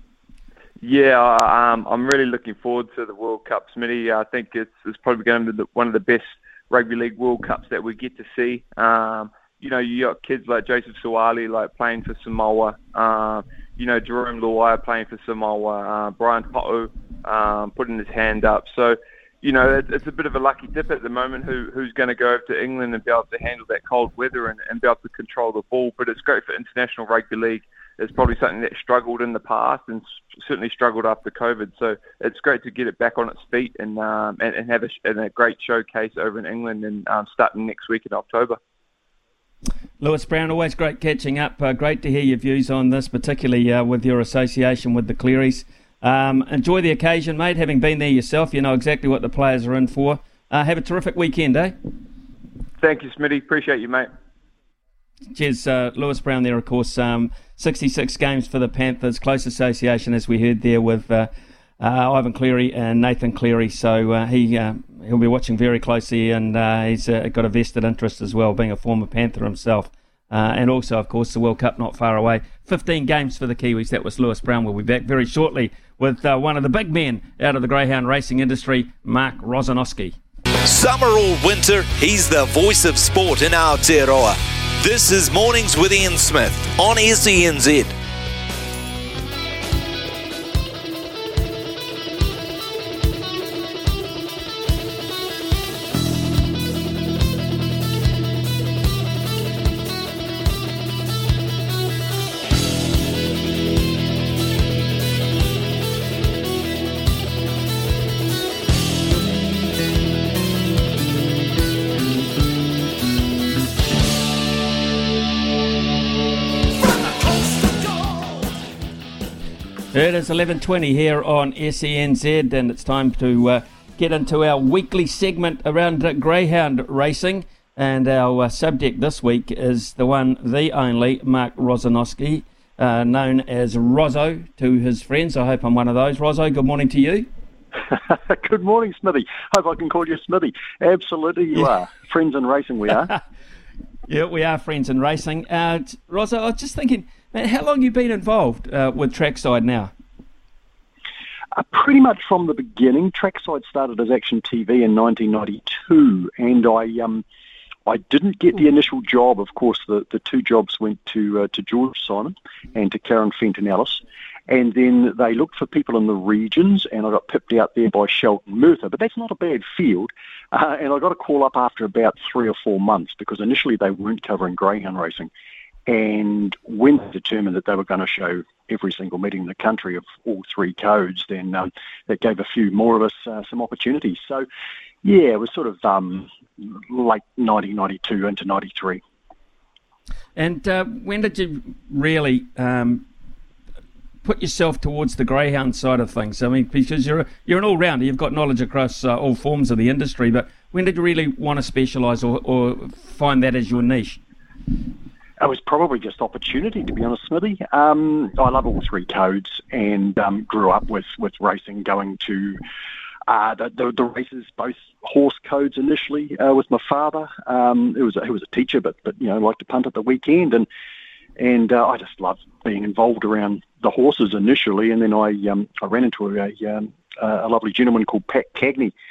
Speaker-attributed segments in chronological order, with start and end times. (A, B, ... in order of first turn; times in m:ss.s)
0:00.8-0:38.6 A
0:40.0-0:51.8 B
0:52.8-0:54.1 A
0:55.3-1:20.2 B
1:20.6-1:28.0 C
1:59.9-2:17.3 B
2:17.9-2:23.1 D
2:24.1-2:29.9 B
2:31.6-2:37.2 D
2:37.9-2:55.3 D
2:55.9-3:04.5 D
3:05.0-3:09.0 D
3:10.4-3:13.0 B
3:14.2-3:24.2 B
3:25.4-3:32.6 D
3:33.3-3:40.7 D
3:41.4-3:48.9 D